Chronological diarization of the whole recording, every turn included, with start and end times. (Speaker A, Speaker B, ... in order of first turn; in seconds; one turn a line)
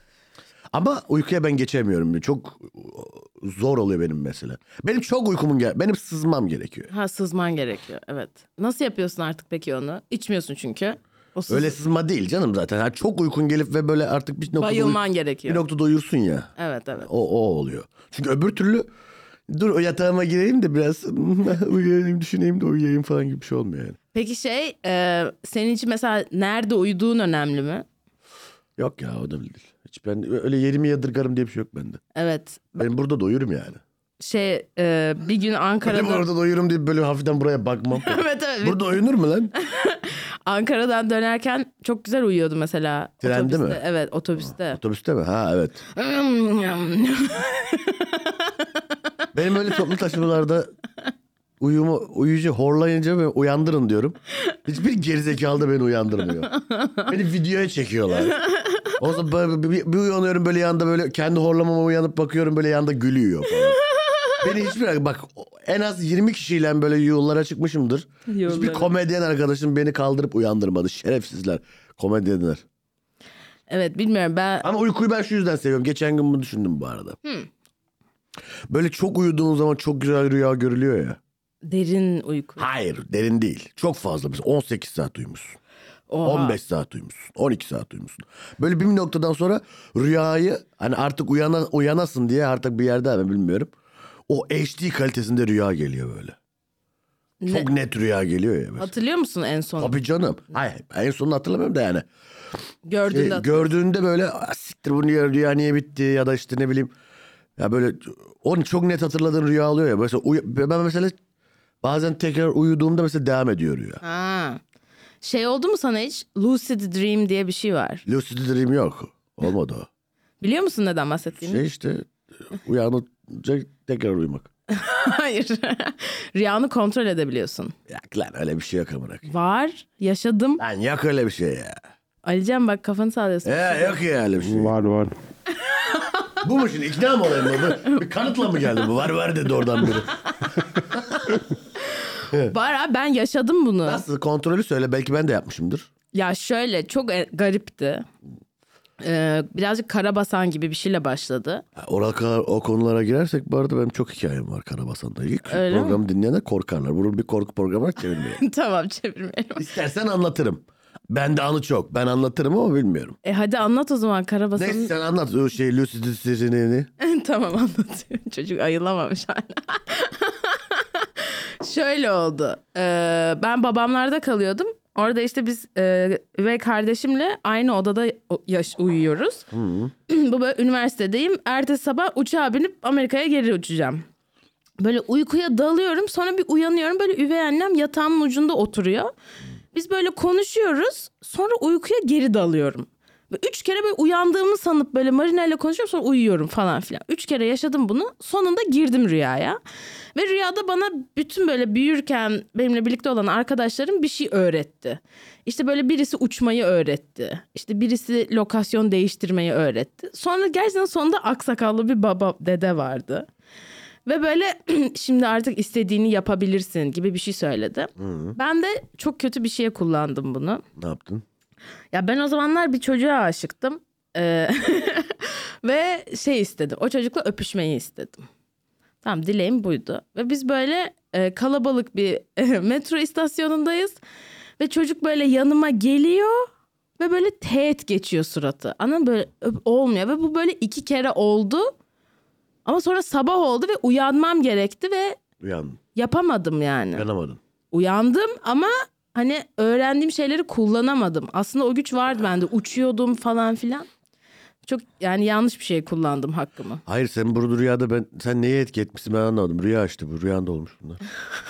Speaker A: 0.7-6.9
Speaker B: 6.9-11.7
Speaker A: 11.5-18.9
Speaker B: 14.6-15.6
Speaker B: 16.6-17.1
Speaker A: 19.5-24.0
Speaker B: 24.1-27.8
Speaker A: 28.8-32.0
Speaker B: 32.1-32.8
Speaker A: 32.8-33.8
Speaker B: 34.2-36.2
Speaker A: 35.8-39.5
Speaker B: 37.9-38.9
Speaker B: 39.5-44.8
Speaker A: 43.2-43.8
Speaker A: 44.6-45.8
Speaker B: 45.9-48.6
Speaker A: 49.3-50.7
Speaker A: 51.6-56.5
Speaker B: 56.5-57.0
Speaker A: 57.0-58.4
Speaker B: 58.3-58.9
Speaker A: 59.0-63.8
Speaker B: 63.9-64.4
Speaker A: 64.4-72.6
Speaker B: 68.3-68.9
Speaker B: 73.7-74.7
Speaker A: 74.6-77.2
Speaker A: 78.7-81.2
Speaker B: 81.6-82.6
Speaker A: 82.6-85.6
Speaker B: 86.1-86.6
Speaker A: 86.2-93.7
Speaker A: 94.3-96.3
Speaker B: 97.4-97.7
Speaker A: 97.5-98.9
Speaker B: 98.8-100.0
Speaker A: 99.8-102.0
Speaker B: 102.9-103.7
Speaker A: 103.1-106.9
Speaker A: 107.6-111.2
Speaker A: 111.8-114.0
Speaker B: 114.0-114.6
Speaker B: 115.2-118.0
Speaker A: 118.0-119.9
Speaker B: 120.4-121.6
Speaker A: 121.4-124.5
Speaker B: 124.7-127.7
Speaker A: 127.9-129.3
Speaker B: 129.2-130.6
Speaker A: 130.6-131.7
Speaker B: 132.2-133.9
Speaker A: 133.4-134.8
Speaker A: 136.4-140.1
Speaker A: 140.7-141.4
Speaker B: 141.9-144.0
Speaker A: 143.8-145.9
Speaker B: 146.1-148.1
Speaker B: 149.0-151.6
Speaker A: 151.8-158.4
Speaker B: 155.5-156.0
Speaker B: 158.4-159.7
Speaker A: 159.6-163.2
Speaker B: 163.2-164.9
Speaker A: 164.6-166.9
Speaker B: 167.0-179.4
Speaker A: 179.5-179.9
Speaker B: 180.1-184.0
Speaker B: 184.8-189.1
Speaker B: 189.7-199.6
Speaker B: 200.1-213.2
Speaker B: 214.1-220.6
Speaker A: 218.0-218.3
Speaker A: 220.8-221.2
Speaker B: 221.9-228.3
Speaker B: 229.0-234.0
Speaker B: 234.6-236.5
Speaker B: 237.0-241.7
Speaker B: 242.7-245.2
Speaker A: 245.4-245.8
Speaker B: 245.9-247.0
Speaker A: 246.9-247.4
Speaker B: 247.7-253.9
Speaker B: 254.6-256.8
Speaker A: 256.9-261.0